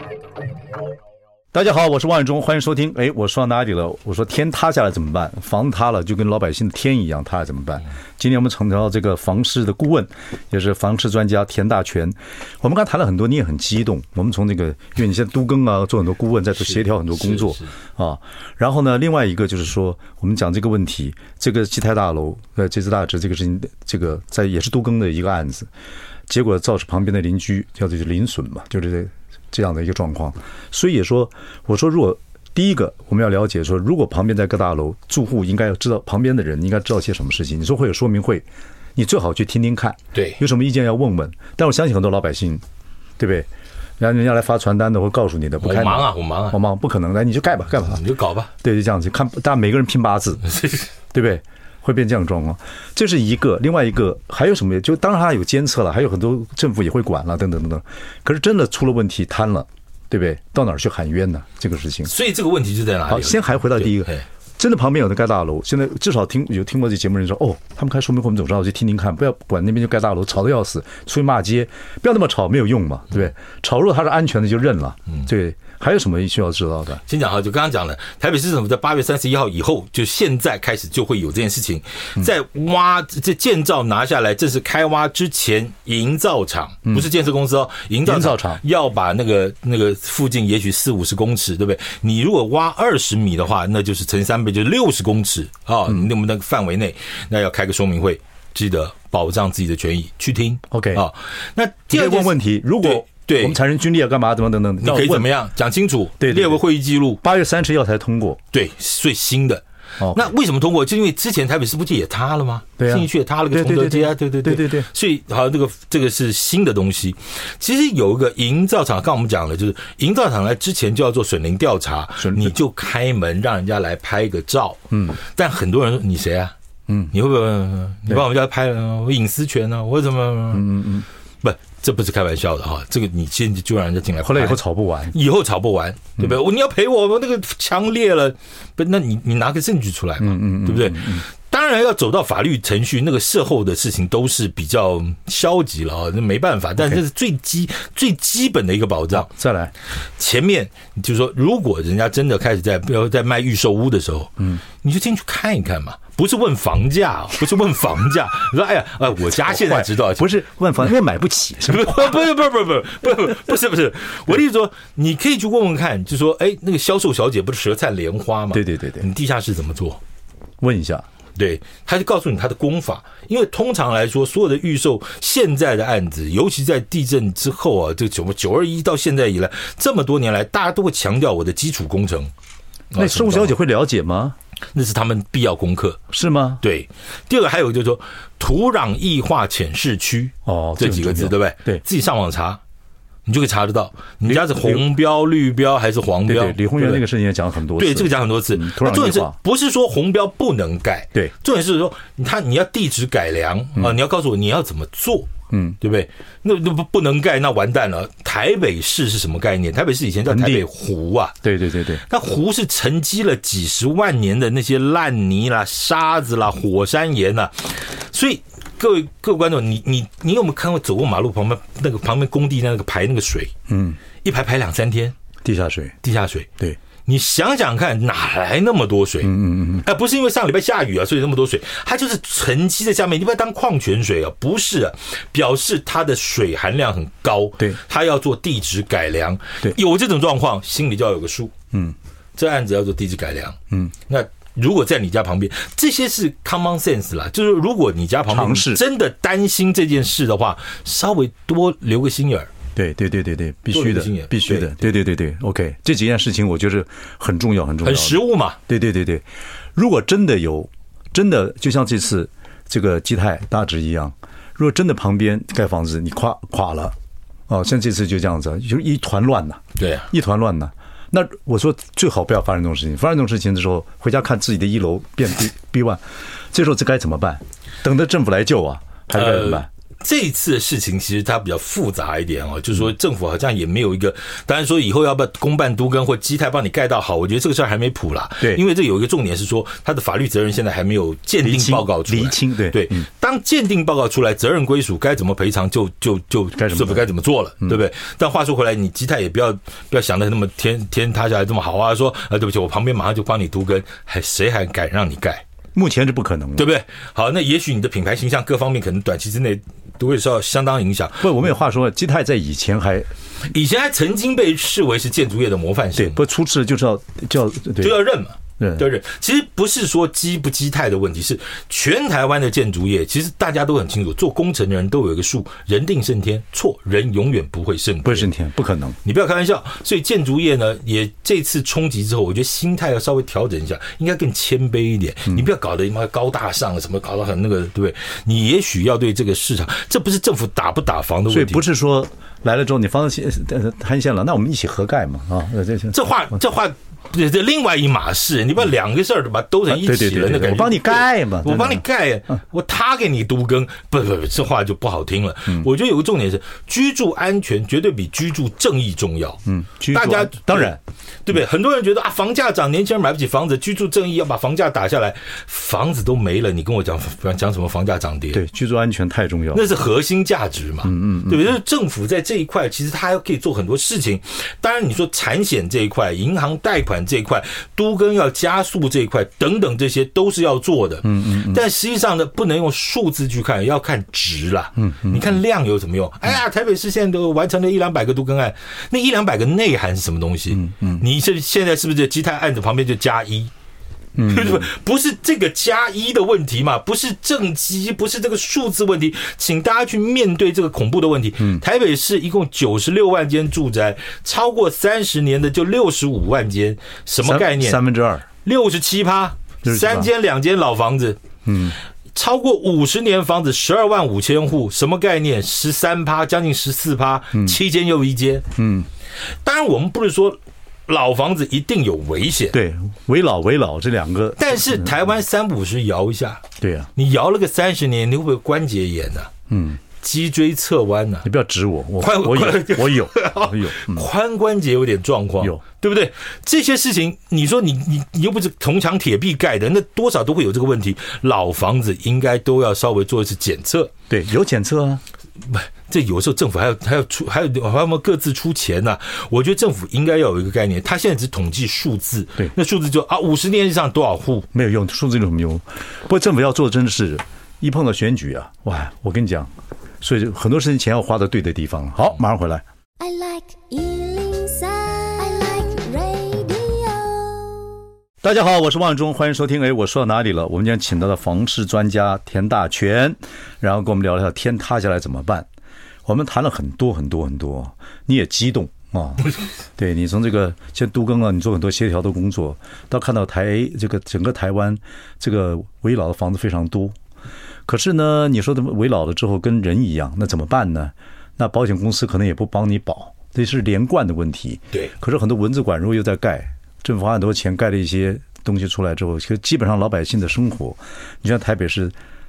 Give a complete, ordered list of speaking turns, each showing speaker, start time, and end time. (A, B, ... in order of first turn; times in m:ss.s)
0:01.5-0:25.7 A
0:16.6-0:17.7 B
0:26.3-0:38.4 A
0:39.0-0:42.6 A
0:40.1-0:40.4 B
0:43.2-0:43.5 A
0:44.0-0:48.0 A
0:45.6-0:46.6 B
0:47.8-0:48.5 B
0:48.6-0:50.4 A
0:50.5-0:50.9 B
0:51.1-1:02.1 A
1:02.0-1:04.2 B
1:03.1-1:17.0 A
1:17.1-1:43.6 B
1:28.0-1:28.6 A
1:40.7-1:41.0 A
1:41.9-1:45.3 A
1:44.8-1:47.2 B
1:46.2-1:46.6 A
1:47.2-1:48.4 A
1:48.5-2:06.5 B
1:50.0-1:50.3 A
1:52.8-1:54.9 A
2:02.2-2:02.5 A
2:04.9-2:05.2 A
2:06.9-2:07.1 A
2:07.1-2:10.8 B
2:10.5-2:11.0 A
2:11.4-2:29.3 B
2:14.2-2:15.1 A
2:20.2-2:21.2 A
2:29.1-2:29.7 A
2:30.2-2:40.3 B
2:39.3-2:42.2 A
2:41.6-2:50.0 B
2:48.5-2:49.1 A
2:50.6-2:51.0 A
2:51.4-3:02.3 B
3:02.9-3:03.5 B
3:03.0-3:04.4 A
3:04.7-3:06.0 B
3:06.1-3:06.6 A
3:06.6-3:12.6 B
3:10.4-3:11.8 A
3:13.2-3:17.0 B
3:14.2-3:14.8 A
3:16.3-3:19.4 A
3:17.8-3:31.3 B
3:25.5-3:25.8 A
3:30.3-3:30.6 A
3:31.4-3:32.0 A
3:32.0-3:43.5 B
3:43.7-3:44.0 A
3:44.2-3:45.1 B
3:45.4-3:45.9 A
3:46.0-3:46.5 B
3:47.0-4:01.5 B
3:49.2-3:49.8 A
4:02.4-4:12.5 B
4:08.3-4:08.8 A
4:12.7-4:26.9 A
4:13.7-4:14.8 B
4:17.8-4:18.6 B
4:27.5-4:39.7 A
4:29.8-4:30.1 B
4:39.1-5:05.4 B
4:51.4-4:53.1 A
4:56.6-4:57.1 A
5:05.7-5:06.7 A
5:06.6-5:11.3 B
5:11.2-5:13.1 A
5:13.5-5:16.2 B
5:16.0-5:18.0 A
5:17.8-5:28.3 B
5:18.6-5:18.8 A
5:28.0-5:29.0 A
5:29.0-5:41.7 B
5:41.3-5:46.0 A
5:45.9-6:08.4 B
5:49.7-5:51.8 A
5:59.4-6:00.8 A
6:08.3-6:09.7 A
6:09.5-6:33.5 B
6:10.8-6:11.5 A
6:21.0-6:21.6 A
6:24.8-6:25.3 A
6:30.5-6:31.0 A
6:34.2-6:34.7 A
6:34.2-6:47.8 B
6:47.2-6:48.2 A
6:48.4-6:51.2 B
6:49.6-6:50.1 A
6:51.4-6:51.8 A
6:52.1-6:58.4 B
6:58.6-6:58.9 A
6:59.4-7:02.6 B
7:02.5-7:04.9 A
7:04.4-7:06.4 B
7:06.6-7:06.9 A
7:07.0-7:09.3 B
7:09.5-7:09.8 A
7:10.0-7:11.3 B
7:11.2-7:14.1 A
7:12.0-7:23.9 B
7:24.1-7:25.0 A
7:25.4-7:34.5 B
7:34.5-7:42.6 A
7:43.0-7:47.8 C
7:48.2-7:55.5 A
7:56.0-8:06.9 A
8:07.6-8:21.9 A